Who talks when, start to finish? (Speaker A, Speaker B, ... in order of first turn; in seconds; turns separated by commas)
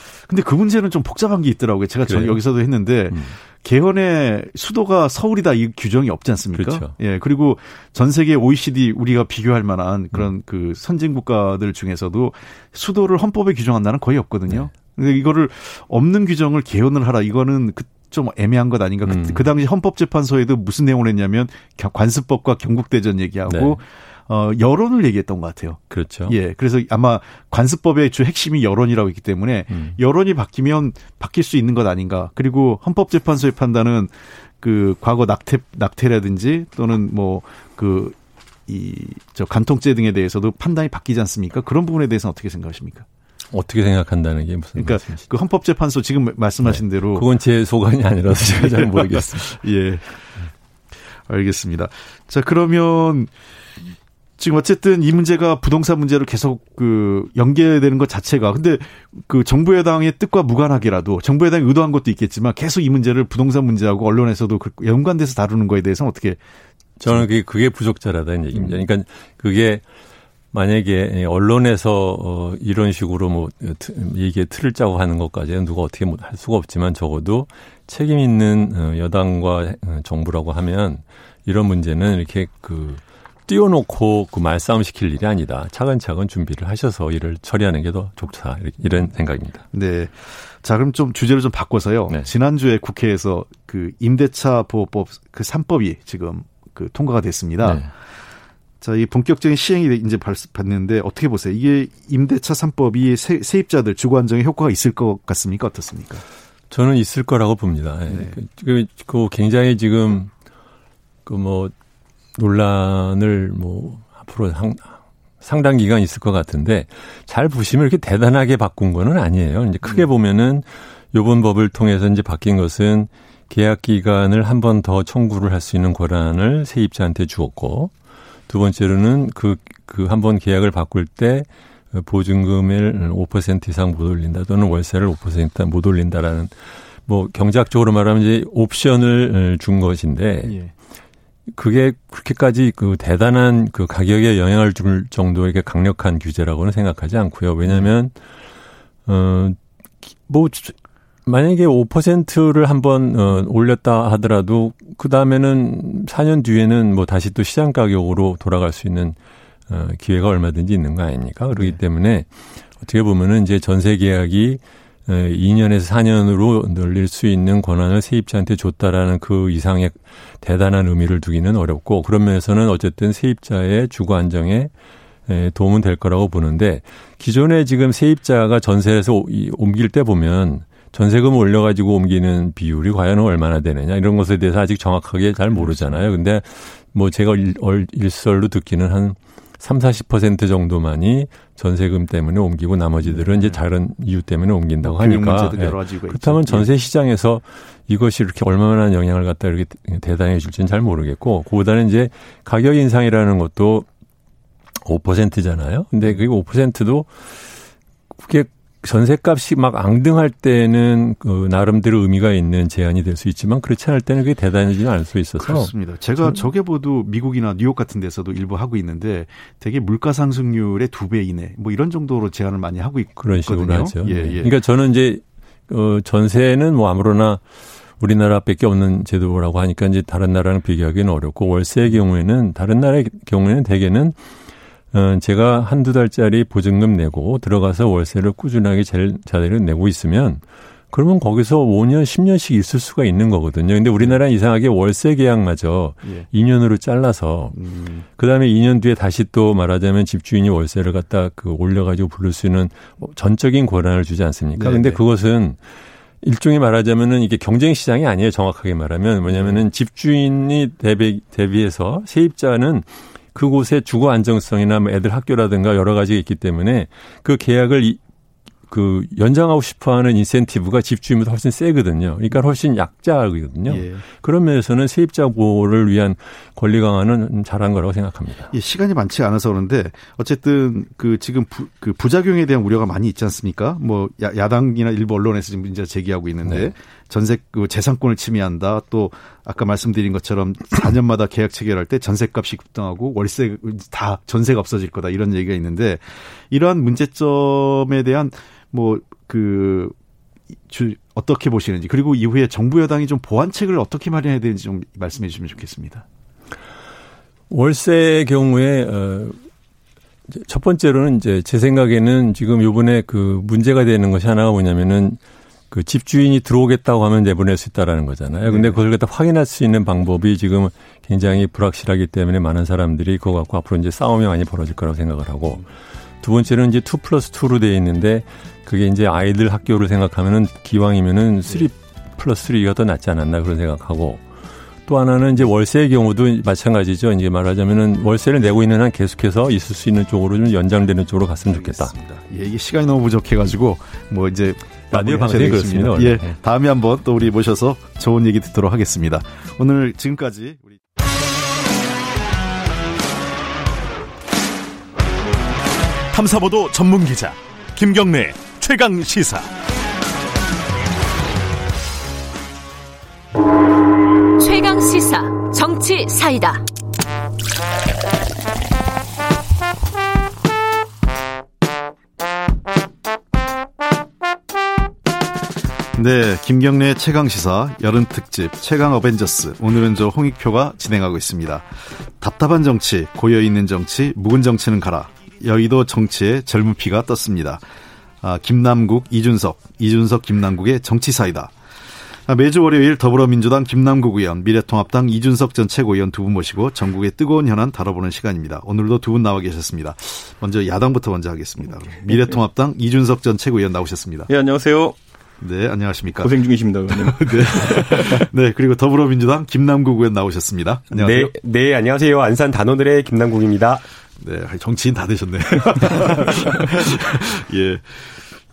Speaker A: 0.3-43.1, Speaker B: 2.1-2.4, Speaker B: 6.5-6.9, Speaker B: 14.5-14.7, Speaker B: 19.1-19.5, Speaker B: 23.5-23.8, Speaker B: 25.9-26.4, Speaker B: 43.5-45.2, Speaker A: 44.8-47.3, Speaker B: 46.6-49.6, Speaker A: 48.3-50.3, Speaker A: 51.3-53.3, Speaker A: 54.4-66.4, Speaker B: 67.0-69.8, Speaker A: 68.5-68.8, Speaker B: 70.5-89.6, Speaker A: 89.7-97.8, Speaker A: 98.8-106.2, Speaker B: 106.7-110.3, Speaker A: 108.1-108.3, Speaker B: 111.2-111.7, Speaker B: 112.3-127.9, Speaker B: 128.5-140.6, Speaker A: 140.4-140.7, Speaker B: 141.5-148.1, Speaker A: 147.7-147.9, Speaker B: 149.1-149.6, Speaker B: 150.2-159.2, Speaker B: 159.7-174.7, Speaker A: 161.5-161.8, Speaker B: 175.3-203.9, Speaker A: 185.5-186.0, Speaker A: 193.0-193.6, Speaker A: 194.8-196.7, Speaker B: 204.8-207.3, Speaker B: 208.2-216.4, Speaker A: 215.4-224.5, Speaker B: 223.2-234.2, Speaker B: 234.9-247.6, Speaker A: 247.5-248.0, Speaker B: 248.1-255.6, Speaker A: 254.6-255.0, Speaker B: 256.2-268.0, Speaker A: 259.3-259.6, Speaker B: 268.7-278.5, Speaker A: 273.7-274.0, Speaker A: 278.5-299.9, Speaker B: 286.5-286.7, Speaker A: 300.7-306.0, Speaker B: 307.5-309.4, Speaker B: 310.3-325.7, Speaker A: 318.5-318.8, Speaker B: 326.2-334.2, Speaker B: 334.8-342.0, Speaker A: 341.5-350.8, Speaker B: 344.9-346.4, Speaker C: 356.1-359.5, Speaker D: 364.4-366.6, Speaker A: 375.9-387.6, Speaker A: 388.2-391.5, Speaker A: 392.2-404.3, Speaker E: 404.3-405.0, Speaker A: 405.4-411.3, Speaker E: 406.2-408.3, Speaker F: 410.9-413.8, Speaker A: 414.2-418.2